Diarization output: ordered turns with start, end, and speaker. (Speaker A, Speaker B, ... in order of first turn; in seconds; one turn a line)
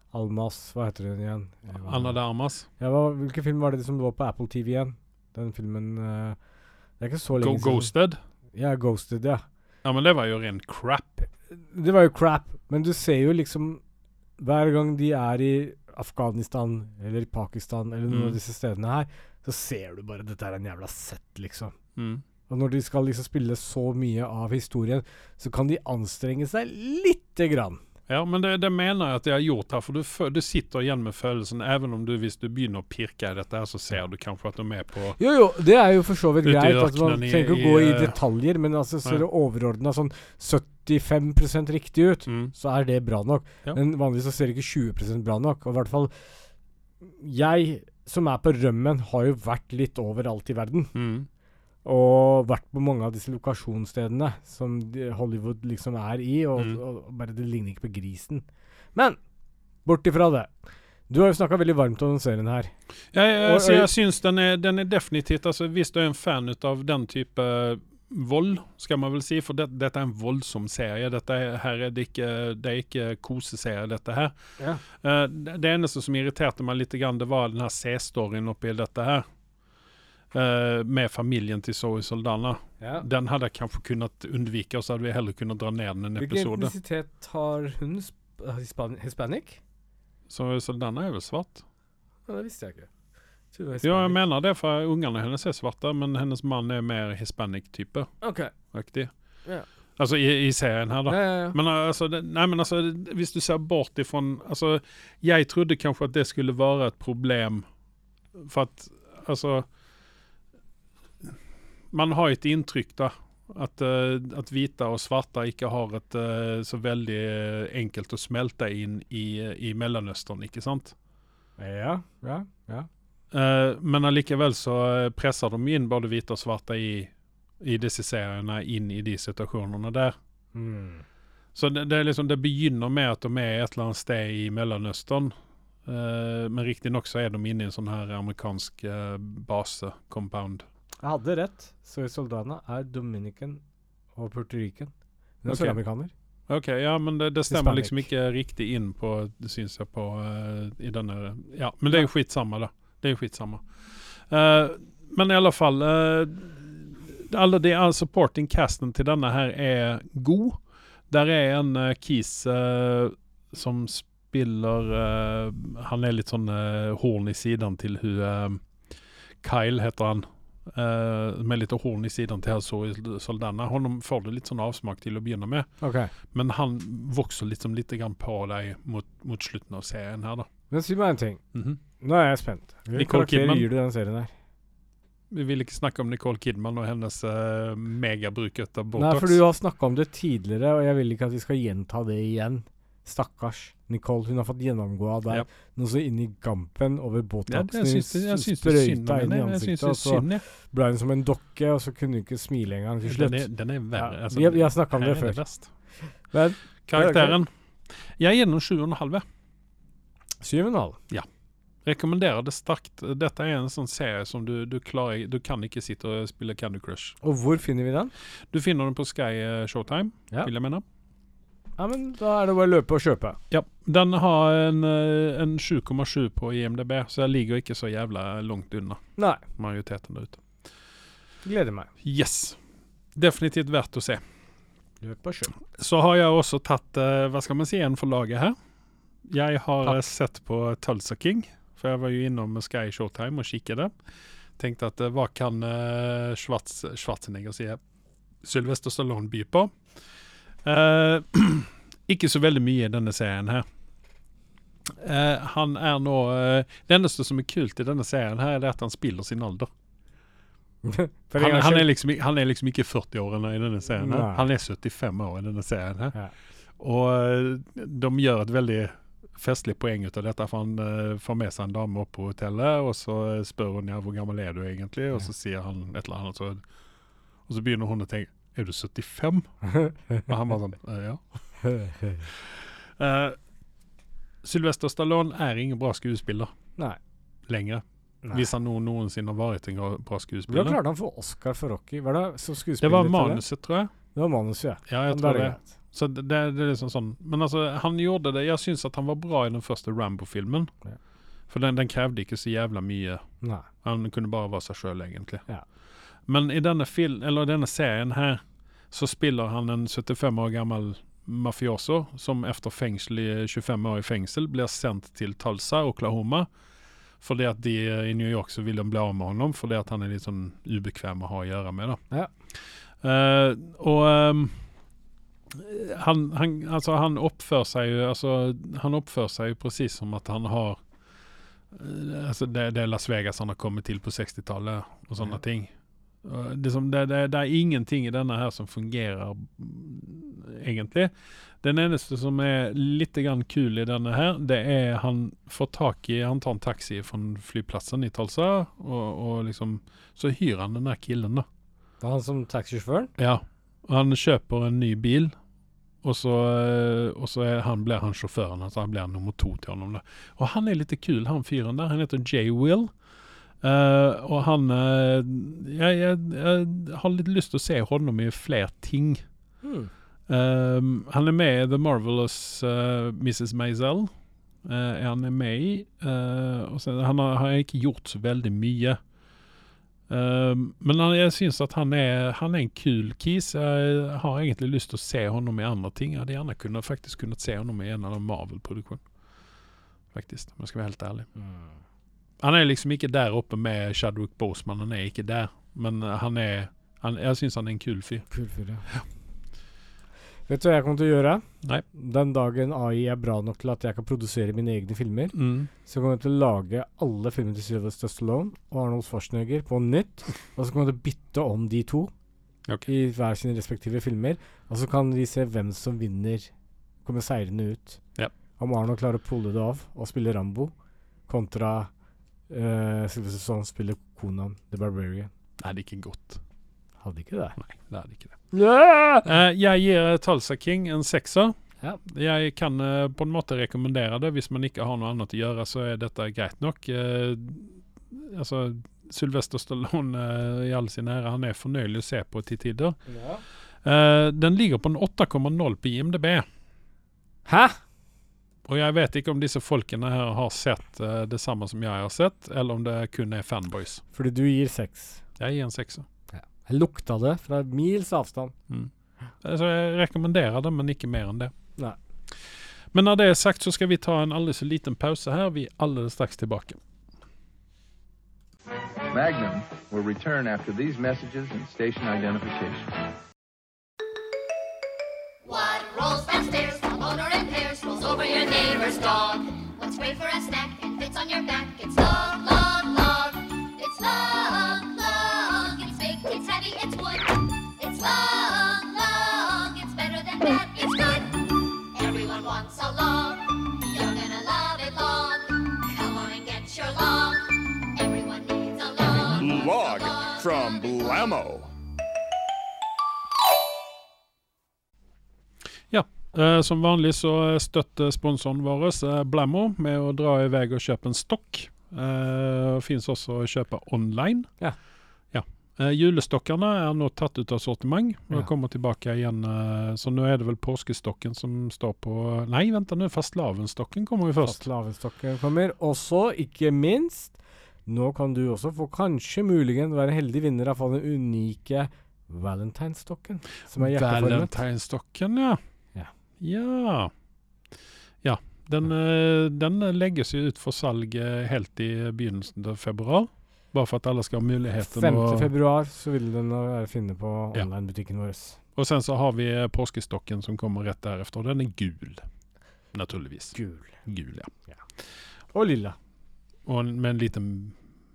Speaker A: 0.1-6.4
Speaker B: 1.7-2.7
Speaker A: 7.0-7.9
Speaker B: 7.4-8.2
Speaker A: 8.5-9.4
Speaker B: 9.8-11.3
Speaker A: 11.5-13.8
Speaker A: 14.4-21.7
Speaker B: 18.1-18.4
Speaker B: 22.0-22.2
Speaker A: 22.5-27.8
Speaker B: 28.1-35.2
Speaker A: 35.2-46.4
Speaker B: 36.4-38.2
Speaker B: 42.3-42.5
Speaker A: 47.0-50.9
Speaker B: 50.9-51.3
Speaker A: 51.8-59.2
Speaker A: 59.8-60.5
Speaker A: 61.1-62.7
Speaker B: 63.1-74.3
Speaker A: 63.4-63.9
Speaker B: 74.9-79.2
Speaker B: 80.3-86.7
Speaker A: 82.8-83.0
Speaker A: 86.2-89.6
Speaker B: 90.3-91.6
Speaker A: 92.3-92.9
Speaker A: 93.5-94.2
Speaker B: 93.8-98.2
Speaker A: 98.2-98.5
Speaker B: 98.7-99.1
Speaker B: 100.0-107.7
Speaker A: 101.1-101.6
Speaker B: 108.3-109.7
Speaker B: 111.9-120.9
Speaker A: 121.6-122.9
Speaker B: 123.3-130.2
Speaker A: 130.5-131.1
Speaker B: 131.6-135.3
Speaker B: 135.9-140.7
Speaker A: 141.0-143.6
Speaker A: 144.1-146.1
Speaker B: 145.4-145.8
Speaker B: 146.5-168.7
Speaker A: 147.5-148.1
Speaker B: 169.4-175.7
Speaker A: 175.8-176.1
Speaker B: 176.3-180.5
Speaker A: 180.7-181.4
Speaker B: 181.5-181.8
Speaker A: 182.0-184.3
Speaker B: 182.9-183.7
Speaker B: 185.3-189.4
Speaker A: 188.9-205.4
Speaker B: 197.5-200.4
Speaker B: 203.0-205.7
Speaker A: 206.0-207.4
Speaker B: 206.9-209.2
Speaker A: 210.4-211.0
Speaker B: 211.8-217.2
Speaker A: 217.2-218.1
Speaker B: 218.5-220.8
Speaker A: 221.8-223.4
Speaker B: 223.5-229.0
Speaker A: 229.2-229.4
Speaker B: 229.6-230.4
Speaker A: 231.4-231.9
Speaker B: 232.0-232.6
Speaker B: 233.1-234.2
Speaker A: 235.0-235.6
Speaker B: 235.7-238.6
Speaker B: 239.2-243.9
Speaker B: 244.6-247.8
Speaker B: 248.4-249.8
Speaker B: 250.6-253.6
Speaker B: 254.9-259.7
Speaker A: 260.8-261.9
Speaker B: 261.4-266.1
Speaker A: 264.0-264.4
Speaker B: 266.8-276.6
Speaker B: 277.5-279.5
Speaker A: 279.7-280.3
Speaker B: 280.2-281.2
Speaker A: 281.6-282.3
Speaker B: 282.3-283.4
Speaker B: 284.4-286.5
Speaker B: 287.5-290.8
Speaker A: 290.5-293.4
Speaker B: 292.8-293.9
Speaker A: 294.1-295.7
Speaker B: 294.9-300.7
Speaker B: 301.5-303.2
Speaker A: 303.4-303.7
Speaker B: 303.8-305.4
Speaker B: 306.3-316.5
Speaker B: 317.2-322.0
Speaker B: 323.0-324.6
Speaker B: 325.5-330.8
Speaker B: 331.7-335.7
Speaker B: 336.2-351.4
Speaker A: 352.0-353.1
Speaker B: 353.2-355.3
Speaker B: 356.0-362.9
Speaker B: 363.6-369.2
Speaker A: 369.6-369.9
Speaker B: 370.3-374.1
Speaker B: 374.6-379.0
Speaker B: 380.1-389.0
Speaker B: 390.1-391.3
Speaker A: 391.4-391.7
Speaker B: 392.4-398.2
Speaker A: 398.3-398.9
Speaker A: 400.5-412.1
Speaker B: 405.3-405.7
Speaker A: 412.9-416.5
Speaker A: 417.0-418.0
Speaker A: 418.6-420.7
Speaker A: 421.3-421.9
Speaker A: 422.5-425.3
Speaker B: 425.6-426.4
Speaker A: 427.0-427.6
Speaker B: 427.6-428.4
Speaker A: 428.5-429.3
Speaker B: 429.2-443.0
Speaker A: 443.1-443.4
Speaker B: 443.8-446.4
Speaker A: 447.4-447.8
Speaker B: 448.6-454.0
Speaker A: 454.1-455.2
Speaker B: 455.4-456.1
Speaker A: 456.3-458.5
Speaker B: 459.4-461.5
Speaker B: 462.9-466.8
Speaker C: 469.1-472.9
Speaker D: 475.4-501.2
Speaker E: 499.3-501.7
Speaker B: 505.9-514.6
Speaker B: 515.3-524.6
Speaker A: 524.4-534.5
Speaker B: 533.8-535.6
Speaker B: 536.4-537.1
Speaker B: 538.2-545.5
Speaker A: 544.8-548.6
Speaker B: 548.8-552.3
Speaker B: 552.9-554.5
Speaker A: 553.5-554.0
Speaker A: 555.5-556.0
Speaker B: 556.6-557.8